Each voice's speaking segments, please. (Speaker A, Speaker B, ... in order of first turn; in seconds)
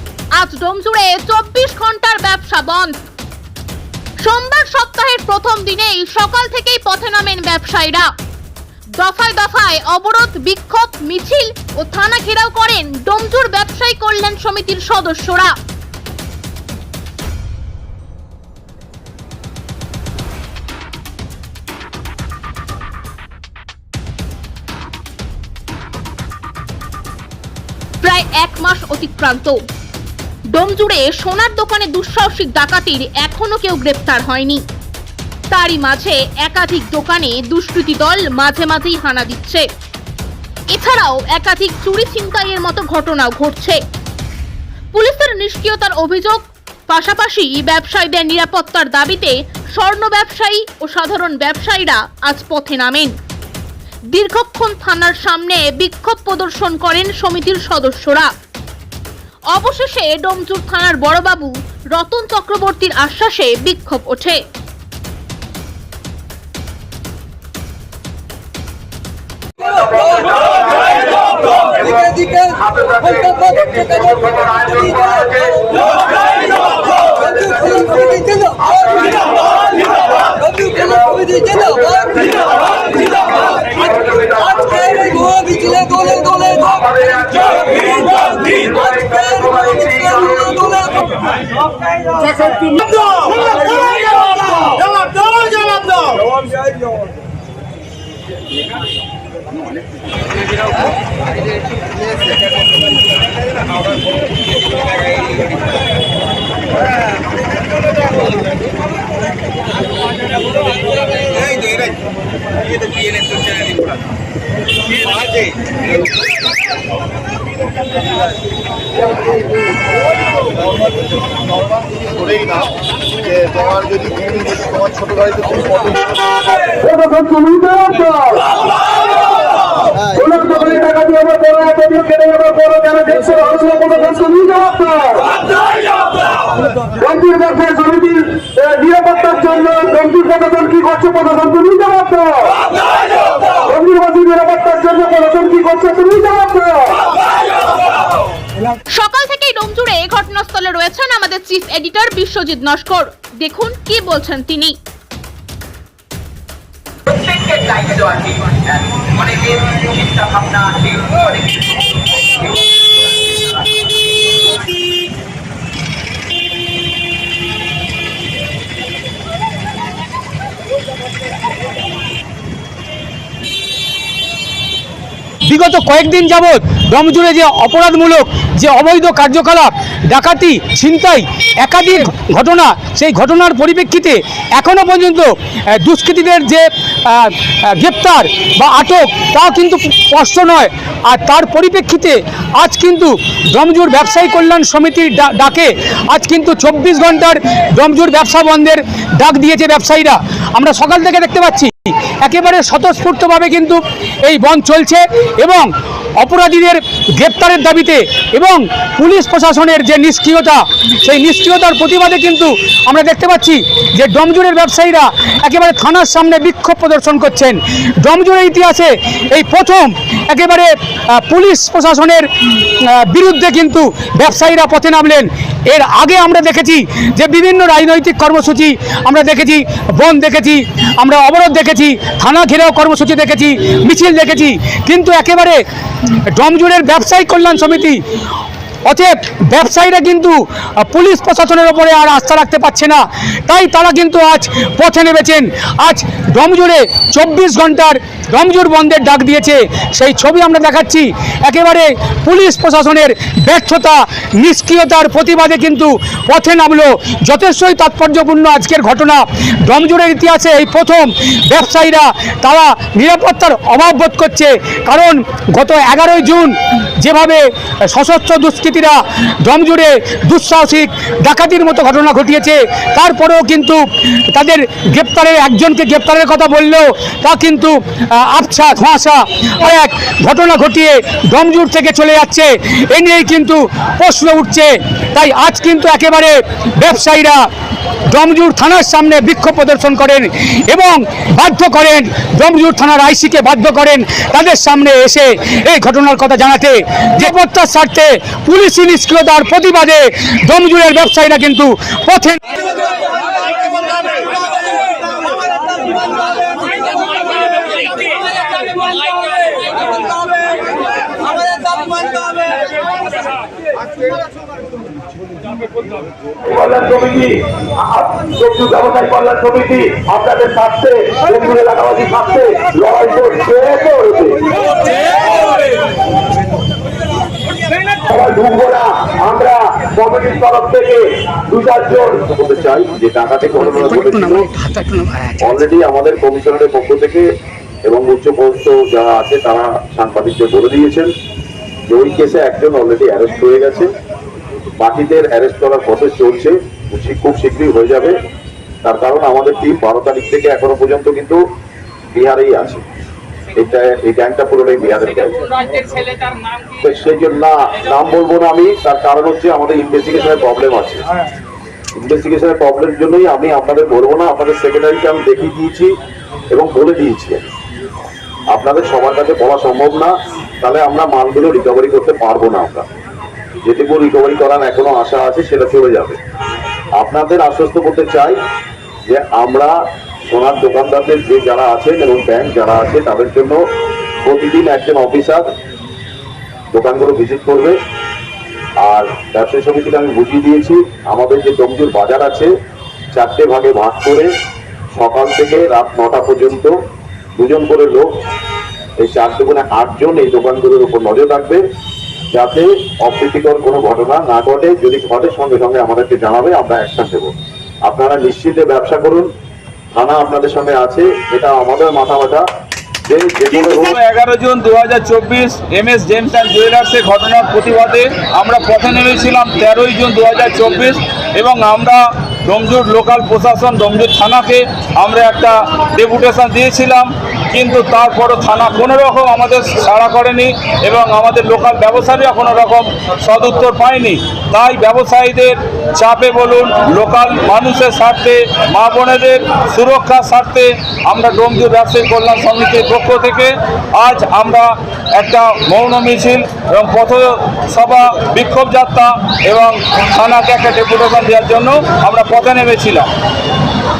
Speaker A: 0.4-2.9, 4.2-8.1, 9.0-15.5, 28.0-29.6, 30.5-34.6, 35.5-39.6, 40.7-43.8, 44.9-53.1, 54.1-58.3, 59.5-64.4, 148.9-154.8
Speaker B: 71.9-75.0, 77.3-78.7, 80.5-82.2, 84.4-86.9, 89.4-91.1, 157.2-161.8
Speaker C: 74.4-75.3, 92.3-92.9, 126.6-128.5, 130.0-136.0, 136.8-147.1, 175.4-235.6, 236.3-238.0, 238.9-287.4, 288.1-302.6, 334.0-335.4
Speaker D: 83.9-84.4, 86.9-90.6, 355.5-356.7, 413.5-453.1
Speaker E: 316.5-317.3, 317.9-324.4, 328.1-331.0, 331.5-332.1
Speaker F: 331.6-334.5, 335.4-337.3, 337.9-341.1, 341.9-343.9, 344.8-348.2, 348.8-351.4, 352.1-352.8, 353.5-355.5, 356.8-361.1, 362.0-365.9, 366.5-367.5, 368.5-372.9, 373.6-376.2, 377.0-378.4, 379.1-383.6, 384.2-385.4, 386.7-387.8, 388.8-392.5, 393.1-394.3, 394.9-396.8, 397.4-398.1, 399.0-401.6, 402.3-407.3, 407.9-409.3, 409.9-412.4, 413.1-414.0